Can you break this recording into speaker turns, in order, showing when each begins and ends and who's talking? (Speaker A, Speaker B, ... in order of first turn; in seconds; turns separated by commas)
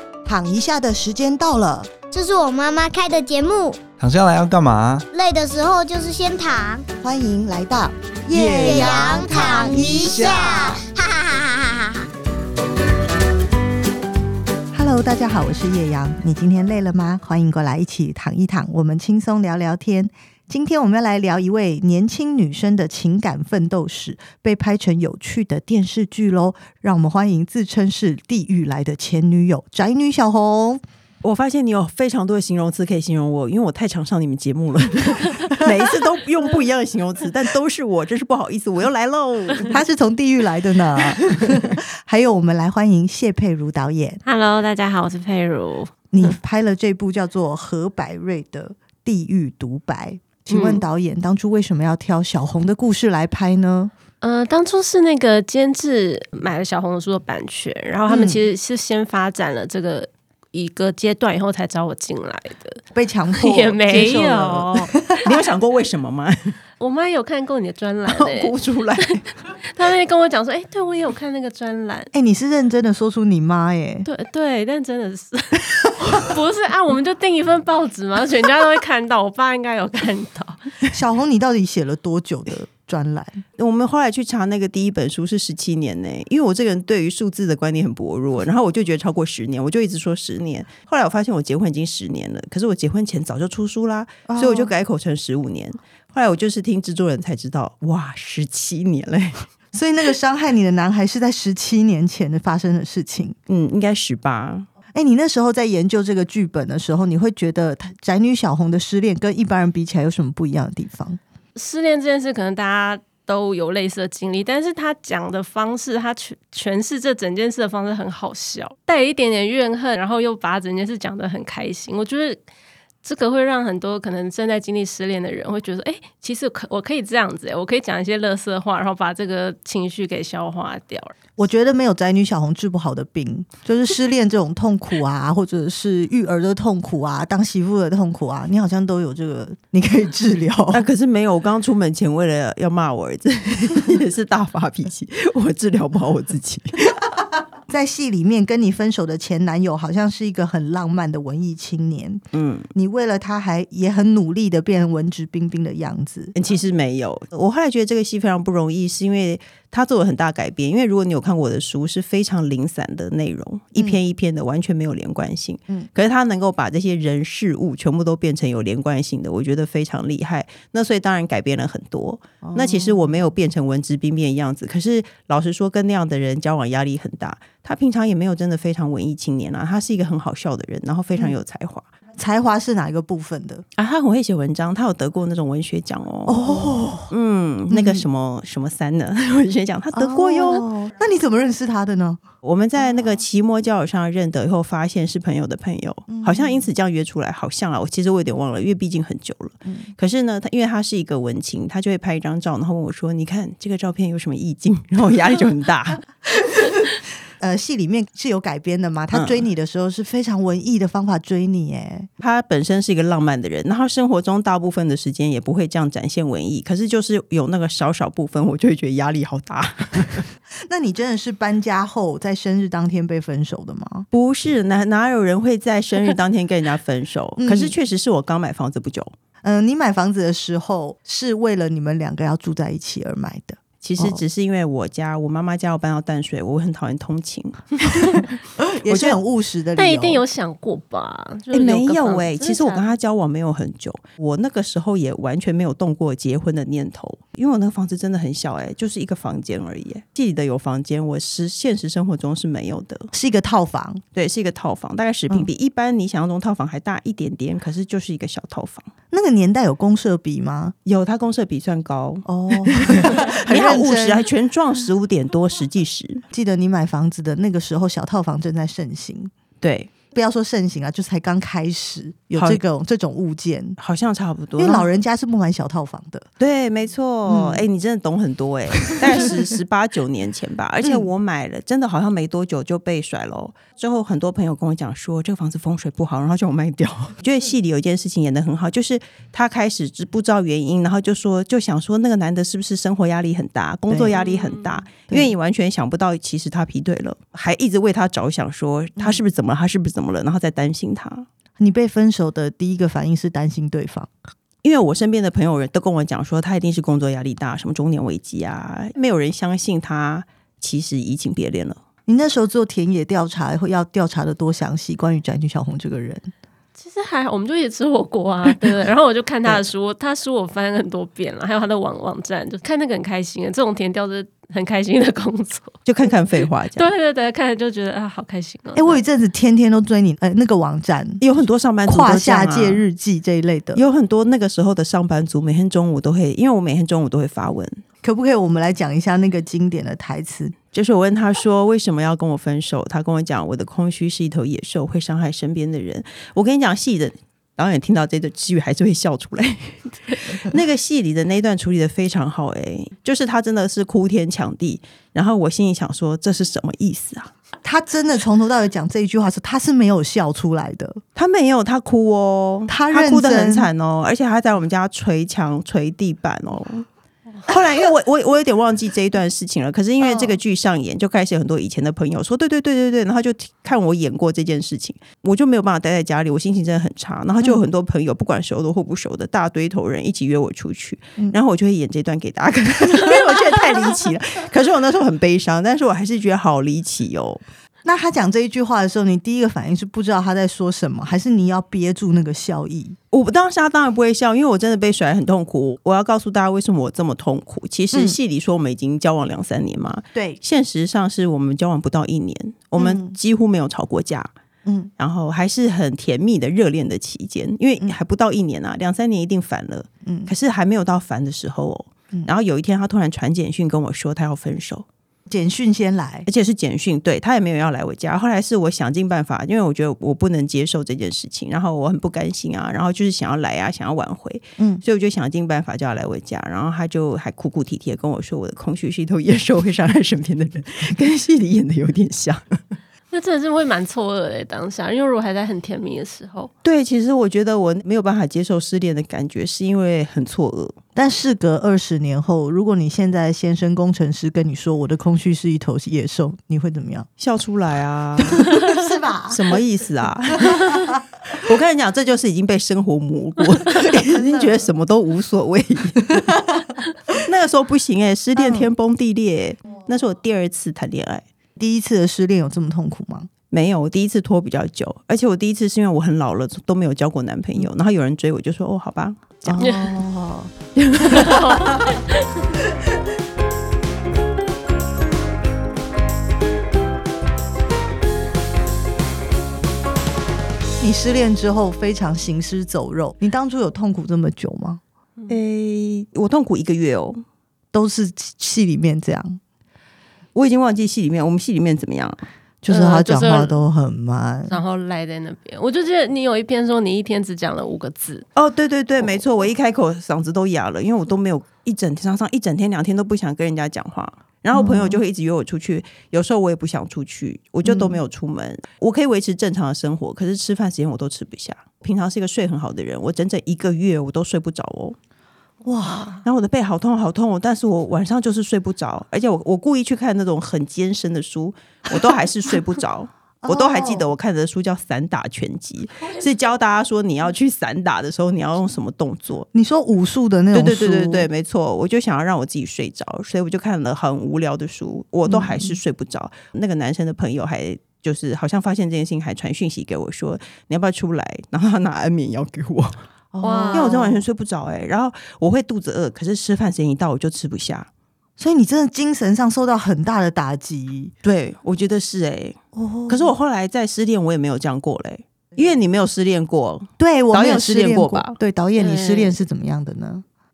Speaker A: 0.2-1.9, Speaker B: 2.1-3.8, Speaker C: 4.0-5.0, Speaker B: 5.1-6.8, Speaker A: 7.0-10.8, Speaker C: 8.3-10.8, Speaker B: 8.6-12.1, Speaker A: 14.7-30.8, Speaker D: 31.2-39.8, Speaker A: 35.5-35.8, Speaker A: 39.7-44.2, Speaker D: 41.0-41.7, Speaker E: 44.2-46.3, Speaker A: 46.1-53.9, Speaker E: 50.5-50.8, Speaker E: 54.2-62.8, Speaker A: 58.1-58.4, Speaker A: 62.9-65.0, Speaker E: 63.4-65.1, Speaker D: 65.2-66.5, Speaker E: 66.8-72.1, Speaker D: 68.1-69.2, Speaker A: 72.1-74.1, Speaker E: 74.0-80.6, Speaker A: 80.9-83.4, Speaker D: 83.6-99.5, Speaker A: 94.3-94.7, Speaker A: 99.7-103.3, Speaker D: 103.5-104.7, Speaker A: 104.9-111.2, Speaker E: 111.5-122.4, Speaker E: 123.0-131.1, Speaker A: 131.4-140.8, Speaker D: 140.7-147.0, Speaker A: 147.7-156.3, Speaker D: 152.3-152.7, Speaker D: 156.3-181.8, Speaker A: 172.4-173.2, Speaker A: 182.2-183.6, Speaker D: 183.8-190.7, Speaker A: 186.2-187.1, Speaker A: 187.7-188.1, Speaker A: 189.9-192.2, Speaker D: 192.4-206.0, Speaker A: 192.8-193.1, Speaker A: 196.1-196.7, Speaker A: 199.7-199.9, Speaker A: 206.4-206.8, Speaker A: 207.4-212.1, Speaker D: 209.1-209.4, Speaker D: 212.2-220.2, Speaker A: 220.7-224.1, Speaker D: 224.1-229.1, Speaker A: 227.4-227.7, Speaker A: 229.4-234.2, Speaker D: 233.8-238.3, Speaker A: 238.6-240.2, Speaker D: 238.9-239.2, Speaker E: 239.8-242.9, Speaker D: 241.5-253.1, Speaker A: 253.1-254.0, Speaker D: 254.1-258.9, Speaker A: 259.1-260.7, Speaker D: 260.9-266.2, Speaker A: 262.2-264.3, Speaker A: 266.3-269.3, Speaker D: 269.6-269.9, Speaker A: 270.1-273.8, Speaker D: 273.8-274.9, Speaker A: 274.6-276.2, Speaker D: 276.4-301.3, Speaker A: 277.3-277.7, Speaker A: 278.9-279.5, Speaker A: 280.8-281.1, Speaker A: 293.9-294.2, Speaker E: 294.2-294.8, Speaker A: 295.1-295.3, Speaker A: 301.6-304.1, Speaker D: 304.6-311.8, Speaker A: 312.1-316.3, Speaker E: 316.8-325.7, Speaker D: 325.8-326.9, Speaker E: 326.8-329.0, Speaker A: 328.8-331.2, Speaker D: 331.2-332.8, Speaker A: 331.9-333.8, Speaker D: 333.7-337.8, Speaker A: 338.0-340.6, Speaker D: 340.7-357.3, Speaker A: 357.6-361.0, Speaker D: 361.1-366.9, Speaker A: 362.7-363.7, Speaker D: 367.4-387.4, Speaker A: 370.0-370.4, Speaker A: 382.9-383.2, Speaker A: 387.8-393.0, Speaker D: 393.1-404.3, Speaker A: 397.9-398.2, Speaker A: 400.1-400.4, Speaker A: 402.8-403.1, Speaker D: 405.0-414.9, Speaker A: 410.0-410.3, Speaker A: 415.3-416.2, Speaker D: 416.2-432.6, Speaker E: 433.1-436.5, Speaker D: 436.6-440.8, Speaker A: 440.9-447.1, Speaker D: 447.2-448.6, Speaker A: 448.2-449.6, Speaker D: 449.3-456.4, Speaker A: 450.3-451.0, Speaker A: 453.9-454.6, Speaker A: 456.1-456.6, Speaker D: 457.1-461.2, Speaker A: 458.4-458.7, Speaker A: 461.6-463.3, Speaker D: 463.5-469.7, Speaker A: 469.4-470.5, Speaker E: 469.6-469.9, Speaker D: 470.8-471.8, Speaker E: 471.1-472.4, Speaker A: 471.1-471.6, Speaker A: 480.8-484.8, Speaker D: 485.3-487.2, Speaker A: 487.7-489.4, Speaker D: 490.3-492.2, Speaker A: 492.6-494.6, Speaker E: 492.7-493.6, Speaker E: 494.5-498.2, Speaker D: 498.4-515.0, Speaker A: 504.5-505.0, Speaker A: 507.6-508.0, Speaker A: 515.6-516.1, Speaker E: 515.9-516.1, Speaker D: 516.2-529.5, Speaker A: 523.4-524.1, Speaker A: 529.5-531.3, Speaker D: 530.5-543.0, Speaker A: 535.3-535.8, Speaker A: 543.3-544.2, Speaker E: 543.4-544.0, Speaker D: 543.7-547.9, Speaker A: 548.4-551.1, Speaker D: 551.2-558.4, Speaker A: 552.7-553.3, Speaker A: 557.0-560.2, Speaker E: 558.8-559.3